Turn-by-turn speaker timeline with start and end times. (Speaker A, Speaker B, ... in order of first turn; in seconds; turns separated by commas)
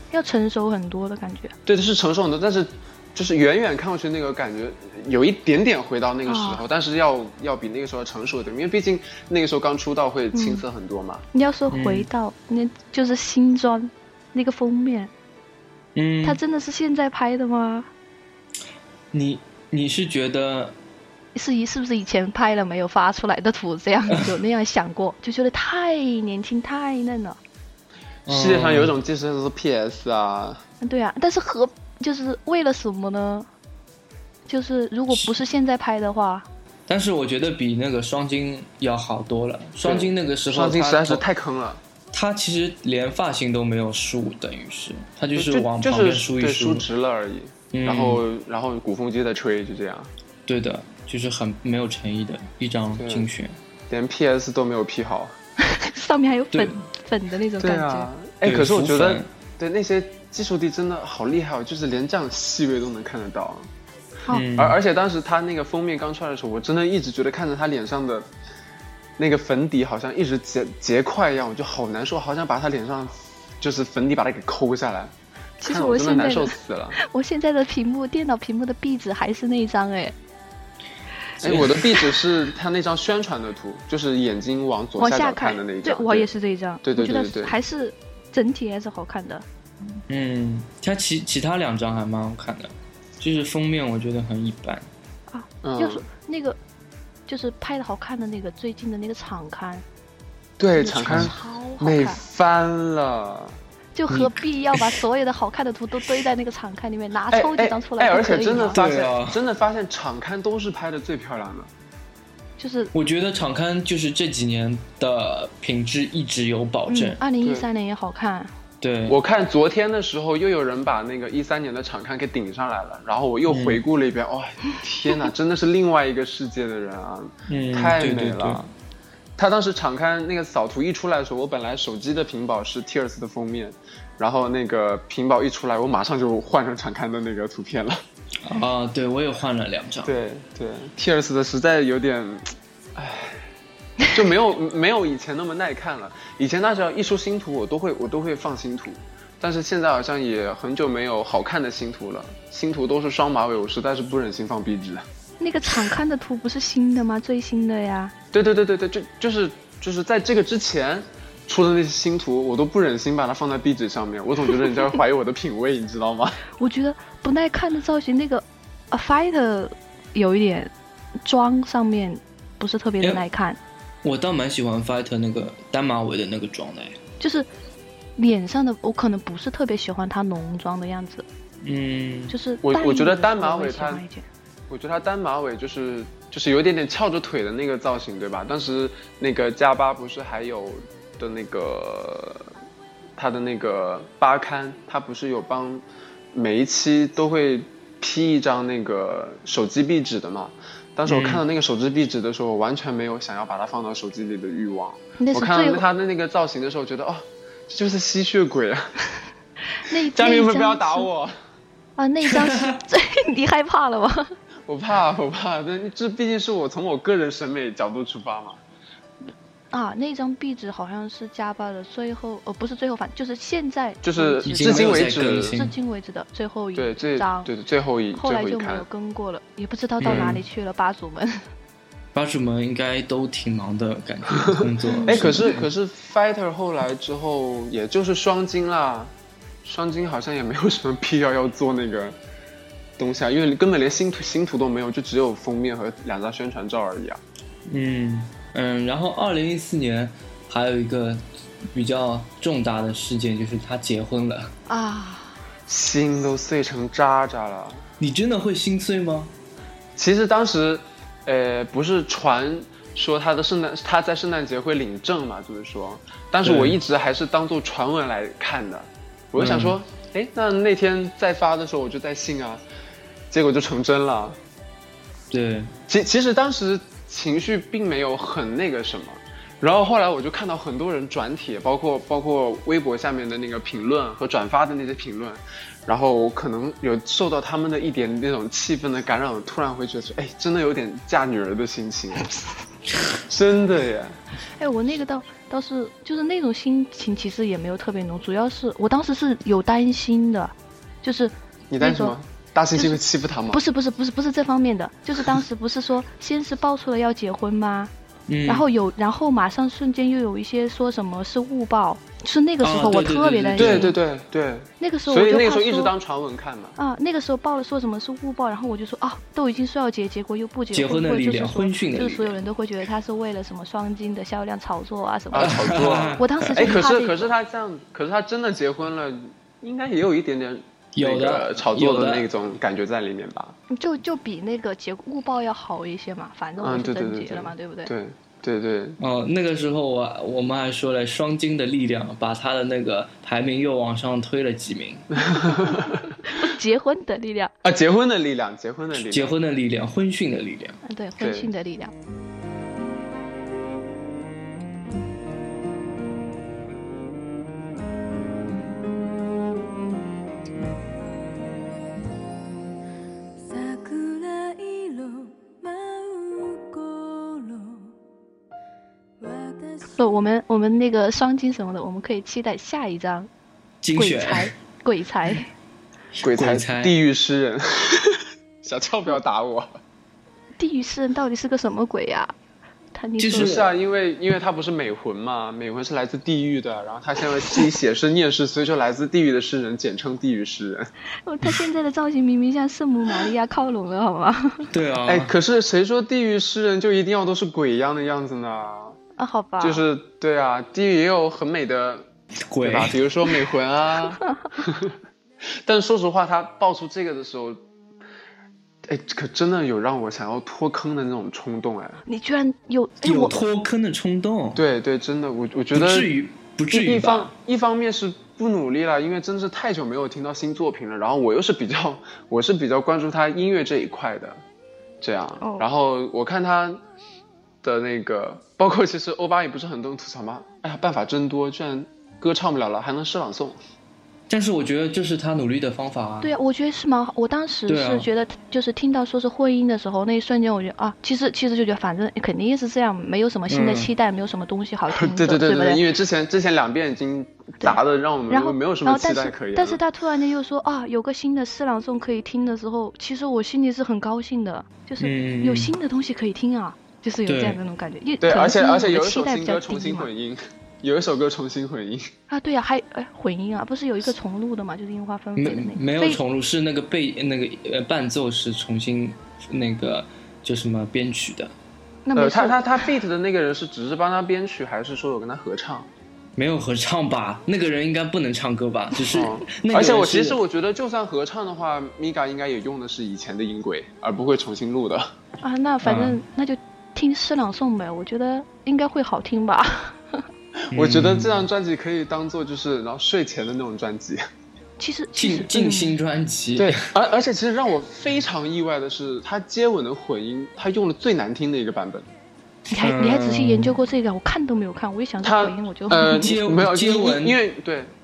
Speaker A: 0.1-1.5, Speaker B: 1.6-11.2, Speaker A: 6.3-6.6, Speaker A: 10.3-10.6, Speaker A: 11.3-15.1, Speaker C: 11.7-12.1, Speaker C: 15.9-16.4, Speaker A: 16.2-17.9, Speaker C: 19.1-20.8, Speaker A: 21.3-27.4, Speaker C: 28.3-28.9, Speaker B: 28.3-30.6, Speaker A: 30.8-33.5, Speaker A: 34.5-36.5, Speaker C: 36.9-41.2, Speaker B: 39.8-41.8, Speaker C: 42.1-46.9, Speaker B: 45.3-50.1, Speaker C: 47.7-48.2, Speaker C: 50.5-53.5, Speaker B: 53.0-53.3, Speaker B: 53.9-55.3, Speaker A: 55.6-58.1, Speaker C: 56.5-56.8, Speaker B: 57.6-63.6, Speaker C: 58.4-59.3, Speaker C: 64.3-64.8, Speaker B: 64.5-68.3, Speaker B: 69.2-77.0, Speaker A: 75.6-80.1, Speaker B: 81.4-86.3, Speaker C: 81.4-81.9, Speaker A: 85.0-89.4, Speaker B: 86.8-87.5, Speaker C: 90.1-94.9, Speaker A: 95.3-96.6, Speaker B: 95.6-96.0, Speaker A: 97.3-99.8, Speaker B: 100.6-103.6, Speaker A: 100.8-102.2, Speaker C: 101.0-101.3, Speaker A: 103.9-108.8, Speaker C: 104.1-104.8, Speaker B: 107.3-111.7, Speaker C: 108.7-109.4, Speaker A: 112.6-112.9, Speaker C: 112.9-117.2, Speaker A: 116.9-118.5, Speaker B: 117.4-117.7, Speaker C: 118.8-119.2, Speaker B: 119.1-128.7, Speaker C: 123.5-123.8, Speaker C: 127.5-128.6, Speaker B: 129.4-138.0, Speaker C: 138.4-140.1, Speaker B: 140.0-143.4, Speaker B: 144.1-155.0, Speaker A: 155.4-158.1, Speaker B: 158.3-166.4, Speaker A: 166.6-170.7, Speaker A: 171.2-173.6, Speaker C: 174.0-177.0, Speaker A: 177.2-177.5, Speaker A: 178.2-181.2, Speaker C: 181.6-182.3, Speaker A: 182.3-184.2, Speaker B: 182.6-184.0, Speaker B: 184.7-192.5, Speaker B: 193.2-208.9, Speaker C: 201.1-201.4, Speaker A: 205.2-205.8, Speaker A: 209.7-211.1, Speaker B: 210.1-211.3, Speaker A: 212.0-214.3, Speaker C: 212.3-212.7, Speaker B: 214.7-218.6, Speaker A: 219.7-227.5, Speaker B: 224.0-225.5, Speaker C: 224.4-225.7, Speaker B: 226.7-228.8, Speaker A: 228.2-231.4, Speaker C: 230.0-230.4, Speaker C: 232.1-235.7, Speaker B: 234.4-239.1, Speaker A: 234.8-235.4, Speaker B: 239.6-242.2, Speaker B: 243.0-247.2, Speaker C: 247.7-254.5, Speaker A: 254.7-255.4, Speaker B: 255.7-257.8, Speaker C: 258.0-259.3, Speaker B: 259.9-272.6, Speaker C: 266.4-266.8, Speaker C: 269.4-269.8, Speaker B: 273.3-274.4, Speaker C: 275.3-275.7, Speaker B: 275.9-292.3, Speaker B: 293.3-294.2, Speaker A: 294.6-302.1, Speaker B: 301.7-303.6, Speaker A: 303.5-307.9, Speaker C: 308.3-308.6, Speaker A: 308.4-313.9, Speaker C: 312.6-313.9, Speaker B: 313.6-316.8, Speaker A: 314.8-315.9, Speaker A: 316.8-327.3, Speaker C: 320.7-322.4, Speaker B: 325.3-333.6, Speaker C: 325.4-326.9, Speaker C: 330.9-332.3, Speaker A: 333.7-337.9, Speaker B: 336.6-339.0, Speaker C: 339.0-345.1, Speaker B: 345.1-346.1, Speaker A: 346.2-347.5, Speaker B: 347.6-349.3, Speaker C: 348.9-350.8, Speaker A: 350.8-351.9, Speaker B: 351.2-351.5, Speaker D: 363.4-367.9, Speaker D: 369.2-370.0, Speaker A: 369.9-373.3, Speaker C: 373.8-374.5, Speaker A: 373.9-375.5, Speaker C: 376.1-376.9, Speaker B: 376.2-379.8, Speaker A: 380.6-382.3, Speaker A: 382.9-383.6, Speaker C: 383.2-383.7, Speaker B: 383.3-390.9, Speaker A: 391.2-394.7, Speaker C: 394.7-395.3, Speaker B: 395.1-399.0, Speaker A: 399.2-399.8, Speaker B: 399.6-402.1, Speaker C: 402.5-403.0, Speaker B: 402.6-404.9, Speaker B: 405.5-407.6, Speaker B: 408.9-412.0, Speaker A: 412.1-413.4, Speaker C: 413.0-414.6, Speaker B: 414.6-416.1, Speaker C: 415.7-417.3, Speaker B: 416.7-424.4, Speaker B: 425.0-426.8, Speaker A: 425.4-425.6, Speaker B: 427.6-433.6, Speaker C: 434.3-436.3, Speaker A: 436.2-445.8, Speaker C: 437.7-438.1, Speaker C: 443.5-443.9, Speaker B: 444.9-449.8, Speaker A: 448.3-460.1, Speaker C: 455.0-455.7, Speaker C: 457.3-457.6, Speaker B: 458.2-462.1, Speaker A: 462.3-466.2, Speaker C: 465.4-471.5, Speaker A: 472.1-472.6, Speaker B: 472.1-475.9, Speaker C: 476.4-480.4, Speaker B: 479.1-485.1, Speaker A: 485.4-490.2, Speaker C: 485.8-486.2, Speaker B: 490.6-494.2, Speaker C: 490.7-491.4, Speaker A: 494.8-495.9, Speaker C: 495.1-496.8, Speaker B: 496.6-502.1, Speaker A: 502.7-506.3, Speaker C: 502.8-503.8, Speaker B: 505.2-507.9, Speaker C: 506.0-507.4